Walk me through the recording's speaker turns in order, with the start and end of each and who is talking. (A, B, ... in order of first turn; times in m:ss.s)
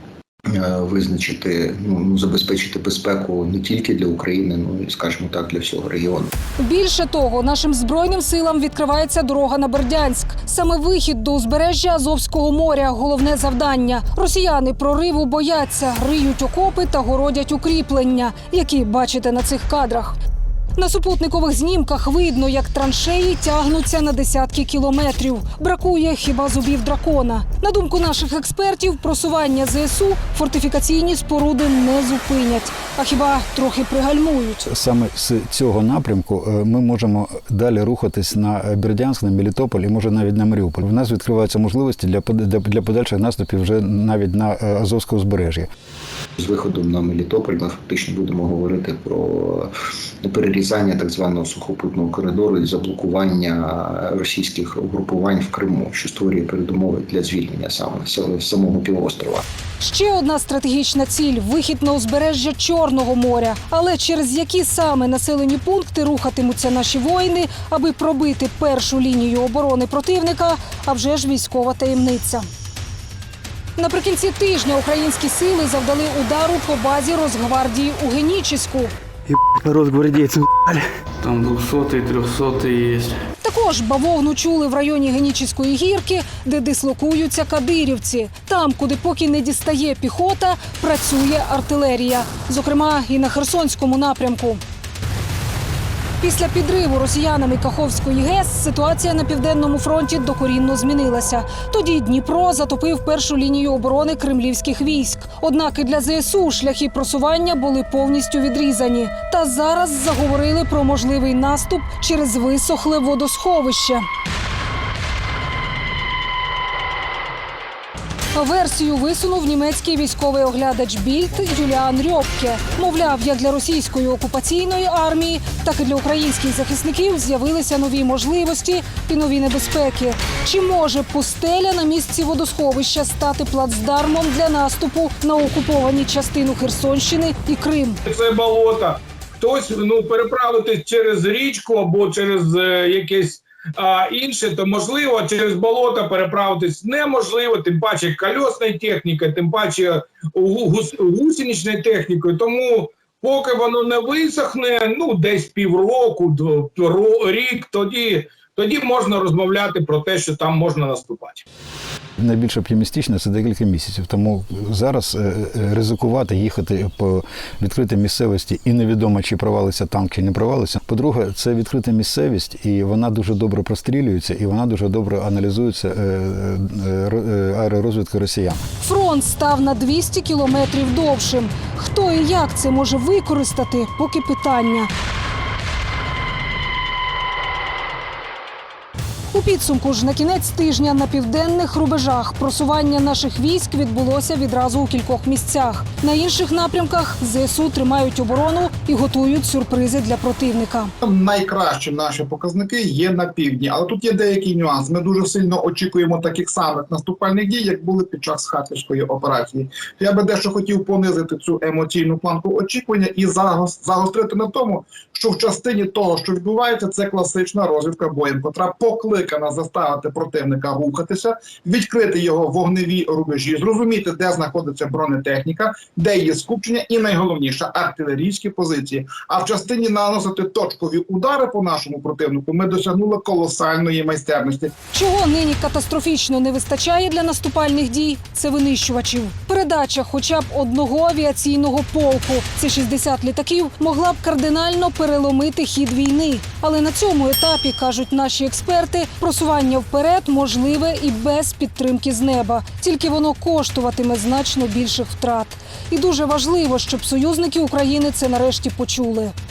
0:00.5-0:06.3 A
0:06.6-0:20.2 B
0:20.8-0:34.6 B
0:34.6-0:45.7 C
0:46.4-0:49.7 A
0:50.2-0:59.4 A
0:59.8-1:12.5 B
1:13.8-1:18.9 B
1:19.3-1:23.2 D
1:23.4-1:34.6 B
1:36.2-1:54.0 B
1:58.3-2:18.0 B
2:18.1-2:41.4 E
2:42.2-2:58.6 C
2:58.8-3:04.9 B
3:09.3-3:20.9 B
3:21.0-3:54.7 F
3:54.9-4:19.3 B